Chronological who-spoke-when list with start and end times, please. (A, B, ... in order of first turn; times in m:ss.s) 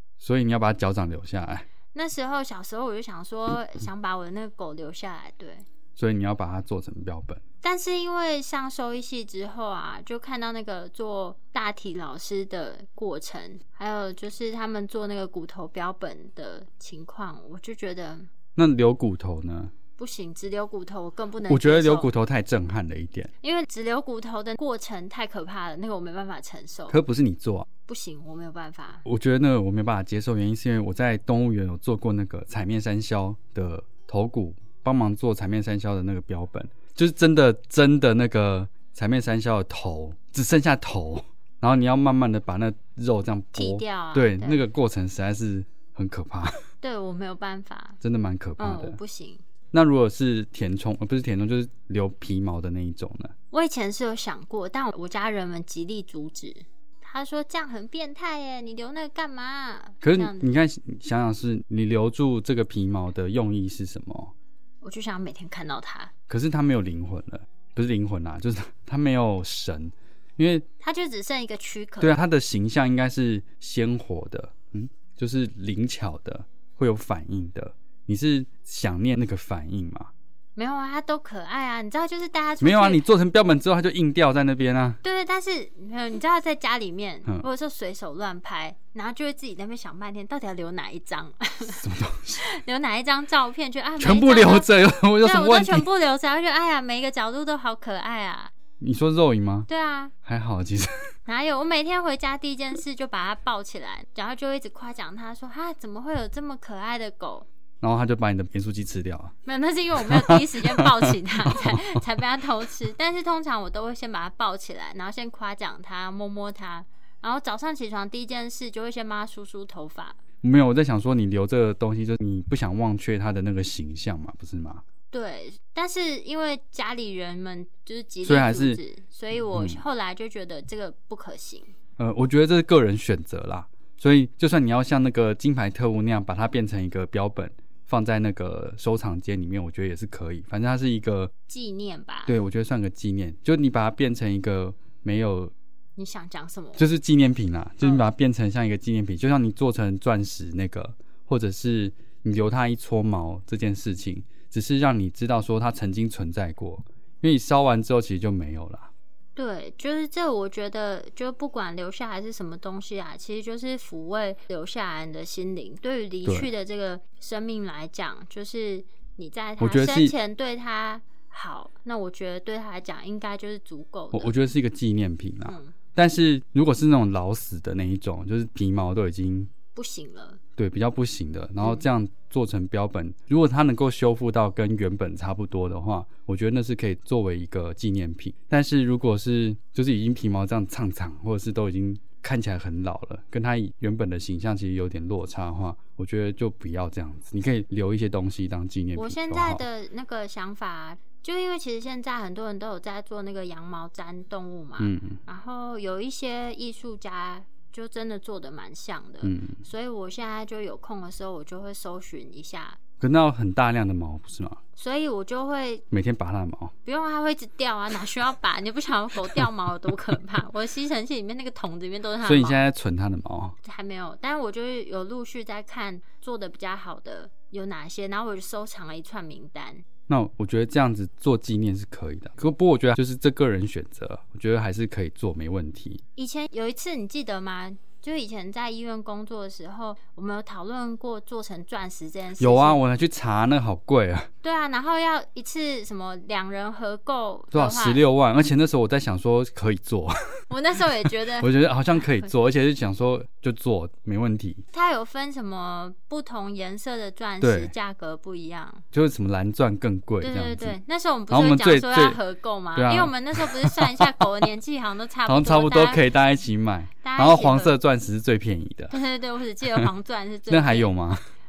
0:00.2-0:01.7 A
0:01.9-0:05.7 B
0:06.0-0:07.4 A
0:07.6-0:18.3 B
0:18.6-0:19.7 A
0:20.0-0:22.1 B
0:21.5-0:23.3 A
0:23.4-0:27.0 B
0:26.9-0:27.7 A
0:27.9-0:29.0 B
0:29.0-0:46.6 A
0:43.5-0:44.6 B
0:46.8-0:48.0 B
0:48.0-0:49.0 A
0:48.6-0:49.4 B
0:49.7-0:53.3 A
0:53.5-1:00.5 B
1:00.0-1:04.3 A
1:04.8-1:06.1 B
1:06.3-1:10.7 A
1:10.8-1:12.2 B
1:12.0-1:20.1 A
1:20.6-1:23.0 B
1:22.6-1:25.0 A
1:25.0-1:31.8 B
1:31.7-1:32.4 A
1:32.3-1:38.5 B
1:34.0-1:35.9 A
1:38.8-1:39.7 A
1:39.7-1:40.1 B
1:40.2-1:41.1 A
1:41.3-1:47.5 B
1:47.8-1:49.4 A
1:49.4-2:00.2 B
1:50.0-1:52.0 A
2:00.4-2:04.8 A
2:05.1-2:11.7 B
2:08.2-2:08.8 A
2:09.5-2:09.8 A
2:12.0-2:21.3 A
2:21.5-2:22.4 B
2:22.3-2:25.5 A
2:26.0-2:26.8 B
2:26.8-2:38.9 A
2:39.4-2:54.4 B
2:46.3-2:46.5 A
2:49.6-2:50.1 A
2:54.1-2:59.5 A
2:55.5-2:55.8 B
2:59.7-3:00.4 B
3:00.6-3:19.6 A
3:01.6-3:01.9 B
3:19.0-3:32.8 B
3:24.8-3:25.2 A
3:29.2-3:29.6 A
3:33.0-3:34.6 A
3:34.8-3:35.8 B
3:35.9-3:36.8 A
3:36.8-3:42.6 B
3:42.2-3:43.6 A
3:43.6-3:49.8 B
3:50.1-3:56.0 A
3:56.2-4:02.8 B
4:02.4-4:04.3 A
4:04.4-4:08.0 B
4:07.5-4:10.5 A
4:10.5-4:11.5 B
4:11.1-4:14.6 A
4:14.7-4:18.8 B
4:17.4-4:17.7 A
4:18.9-4:20.8 A
4:20.2-4:26.0 B
4:21.3-4:22.2 A
4:22.8-4:24.2 A
4:25.3-4:28.9 A
4:27.0-4:27.7 B
4:28.9-4:30.9 B
4:30.5-4:31.2 A